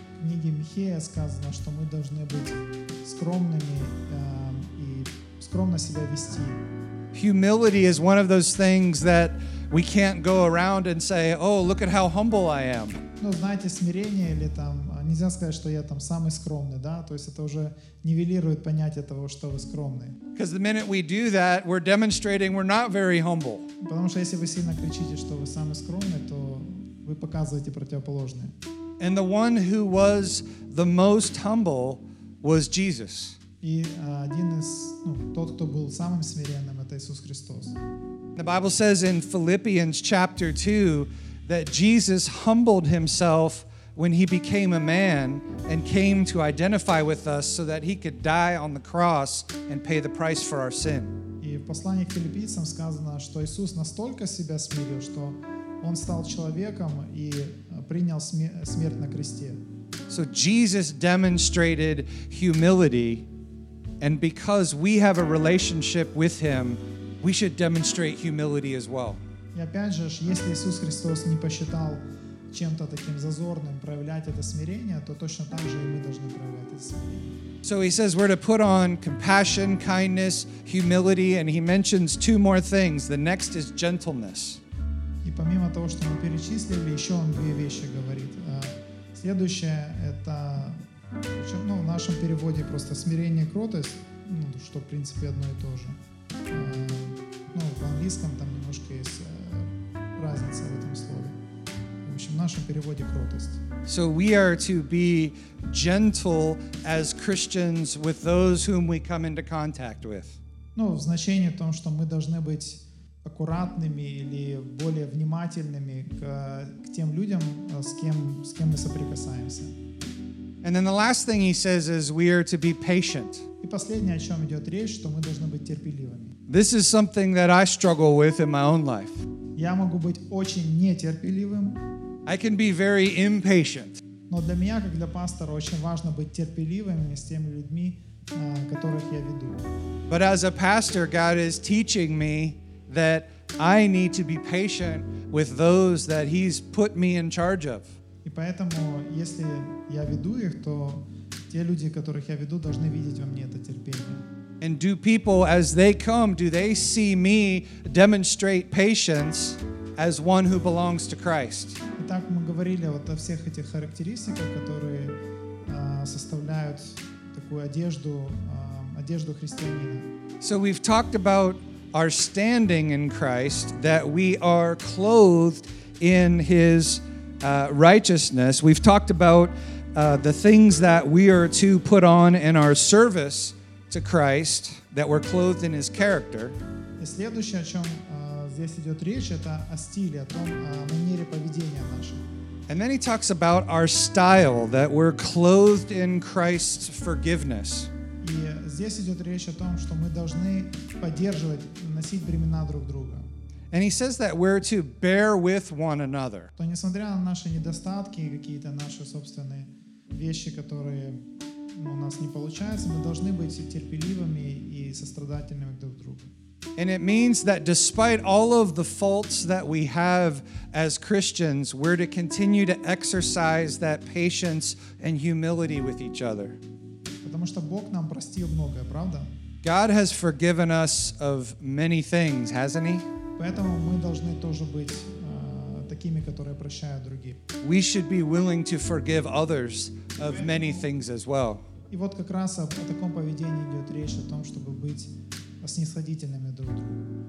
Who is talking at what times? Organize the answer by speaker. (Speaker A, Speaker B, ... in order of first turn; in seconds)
Speaker A: 0.2-6.6, 13.2-20.2, 23.8-28.6, 33.6-37.8, 51.4-59.6, 69.5-77.4, 85.2-96.0, 96.5-101.4, 102.0-103.6, 110.8-119.8, 123.6-126.4, 129.6-131.8, 134.3-139.7, 148.2-154.2, 162.0-170.1, 187.0-192.2, 198.2-203.3, 206.6-216.3, 227.2-229.3, 233.4-237.4, 240.2-240.8, 241.9-247.1
Speaker B: 7.1-13.0, 20.4-23.7, 29.0-33.4, 38.4-51.1, 60.1-63.3, 64.0-69.2, 77.6-84.6, 103.9-110.4, 120.6-123.5, 126.5-129.2, 132.3-134.0, 140.1-147.9, 154.6-161.8, 170.4-186.6, 192.7-197.9, 203.7-206.5, 216.8-226.6, 229.6-233.1, 237.6-241.6